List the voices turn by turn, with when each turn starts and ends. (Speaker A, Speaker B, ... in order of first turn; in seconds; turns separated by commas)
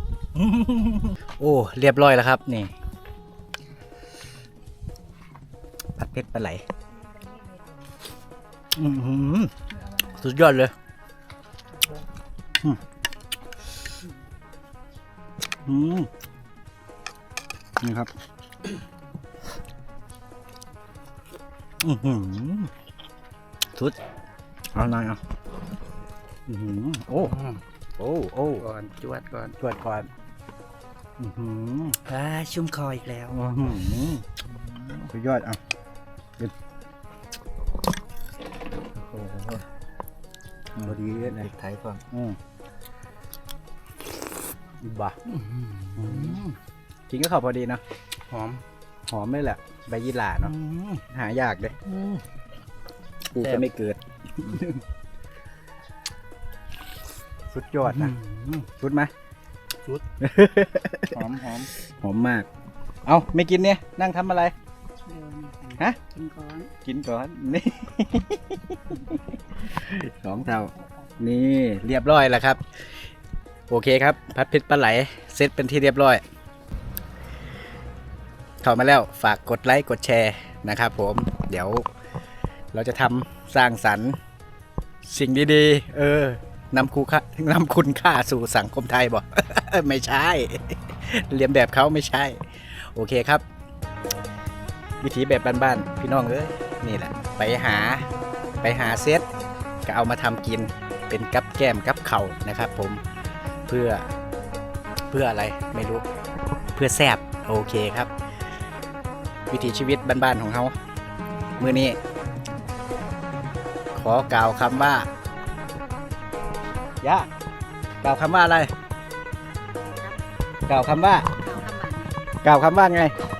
Speaker A: 0.3-2.7, Speaker A: 6.0-6.6, Speaker B: 7.2-7.8, Speaker A: 8.8-10.7, Speaker A: 15.6-16.1, Speaker A: 17.8-18.1, Speaker A: 21.8-22.7, Speaker A: 24.7-25.2, Speaker A: 26.5-28.6, Speaker C: 28.7-29.6, Speaker A: 29.6-30.1, Speaker A: 31.2-32.1, Speaker C: 32.1-33.3, Speaker A: 33.2-34.3, Speaker A: 34.9-35.6, Speaker A: 39.0-39.6, Speaker A: 40.8-42.4, Speaker A: 44.8-45.2, Speaker A: 46.0-46.5, Speaker A: 47.1-47.8, Speaker A: 49.1-51.8, Speaker C: 51.9-52.2, Speaker A: 53.3-54.8, Speaker A: 57.5-59.1, Speaker A: 60.2-62.5, Speaker A: 63.0-64.5, Speaker B: 65.1-66.7, Speaker A: 66.8-72.9, Speaker A: 73.7-76.2, Speaker A: 78.6-81.8, Speaker A: 82.7-84.2, Speaker A: 85.0-93.4, Speaker A: 95.0-98.1, Speaker A: 98.6-99.3, Speaker A: 99.8-103.0, Speaker A: 103.7-104.1, Speaker A: 105.1-106.0, Speaker A: 106.7-108.1, Speaker A: 109.5-110.7, Speaker A: 111.6-112.0, Speaker A: 113.9-115.1, Speaker A: 117.0-117.3, Speaker A: 118.0-118.7, Speaker A: 120.7-121.3, Speaker B: 121.4-122.1, Speaker A: 122.4-123.2